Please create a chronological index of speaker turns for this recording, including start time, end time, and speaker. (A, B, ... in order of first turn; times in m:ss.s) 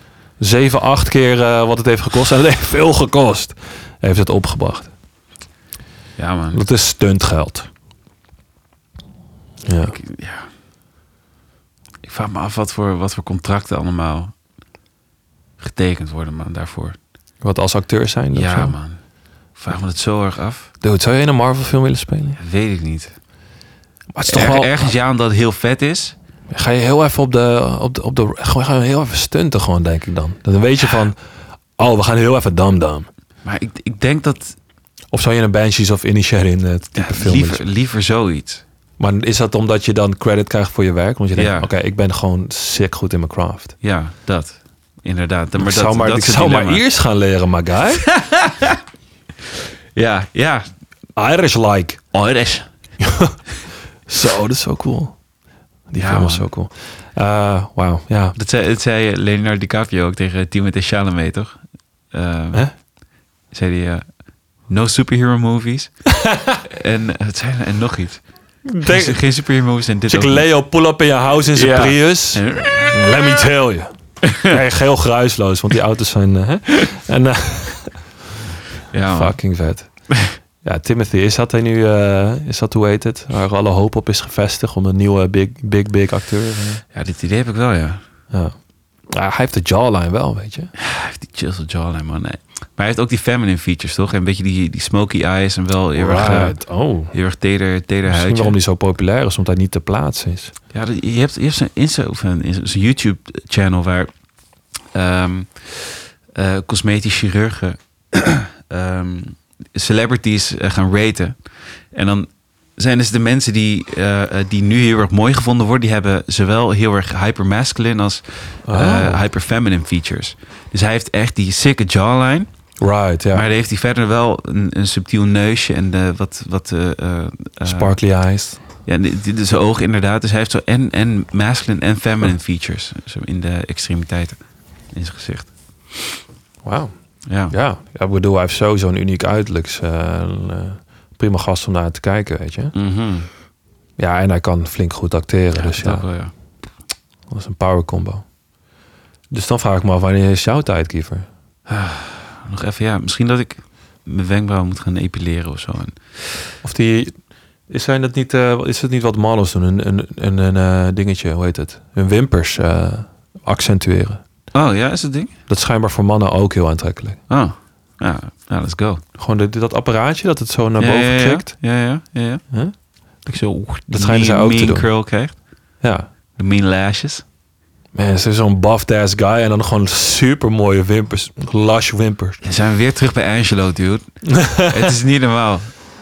0:00.4-0:04.9 A
0:06.2-0:06.6 B
0:06.5-0:07.7 A
0:09.6-0:09.9 A
0:09.9-0:10.5 B
0:12.0-0:14.3 B
0:15.6-0:17.0 B
0:17.4-0:18.8 A
0:18.3-0:19.0 B
0:19.5-0:20.7 B
0:20.8-0:22.4 A
0:22.4-0:23.1 B
0:24.1-0:24.9 A
0:24.2-0:26.1 B
0:26.5-0:31.2 A
0:31.8-0:33.1 A
0:33.4-0:34.6 B
0:35.1-0:37.6 A
0:37.0-0:38.6 B
0:39.0-0:43.7 A
0:41.3-0:41.7 B
0:43.8-0:46.8 B
0:45.6-0:48.0 A
0:48.0-0:48.8 B
0:49.9-0:50.7 B
0:51.2-0:52.0 A
0:52.1-0:52.7 B
0:53.0-0:53.4 A
0:54.1-0:55.2 A
0:55.9-0:58.4 A
0:56.0-0:56.4 B
0:58.3-1:01.6 B
1:02.1-1:02.7 B
1:03.5-1:04.1 B
1:04.7-1:05.9 B
1:06.2-1:06.6 A
1:06.6-1:08.3 B
1:08.6-1:09.2 A
1:08.8-1:10.4 B
1:10.1-1:13.9 A
1:11.5-1:13.0 B
1:14.2-1:14.5 B
1:14.4-1:18.0 A
1:18.9-1:19.4 B
1:19.1-1:19.9 A
1:20.6-1:26.8 A
1:26.9-1:28.0 B
1:29.1-1:30.7 A
1:30.8-1:36.6 B
1:35.9-1:37.1 A
1:37.1-1:38.6 B
1:38.1-1:40.5 A
1:40.7-1:44.1 B
1:44.9-1:51.3 B
1:51.9-2:02.5 B
1:58.6-1:59.2 A
2:02.8-2:03.4 A
2:03.3-2:08.0 B
2:07.6-2:08.6 A
2:08.8-2:14.4 B
2:14.9-2:16.2 B
2:16.6-2:16.9 A
2:17.3-2:17.5 B
2:17.5-2:22.7 A
2:22.7-2:23.3 B
2:24.0-2:26.0 A
2:25.5-2:26.3 B
2:27.3-2:28.2 A
2:29.3-2:31.2 A
2:31.7-2:36.0 B
2:36.6-2:37.1 A
2:37.7-2:44.2 A
2:44.5-2:45.3 B
2:45.5-2:47.2 A
2:47.3-2:49.0 B
2:49.2-2:51.5 A
2:50.8-2:52.4 B
2:53.2-2:55.3 B
2:53.9-2:54.9 A
2:56.4-2:57.2 B
2:57.9-3:02.4 A
3:02.4-3:04.0 B
3:04.3-3:04.9 A
3:04.6-3:05.7 B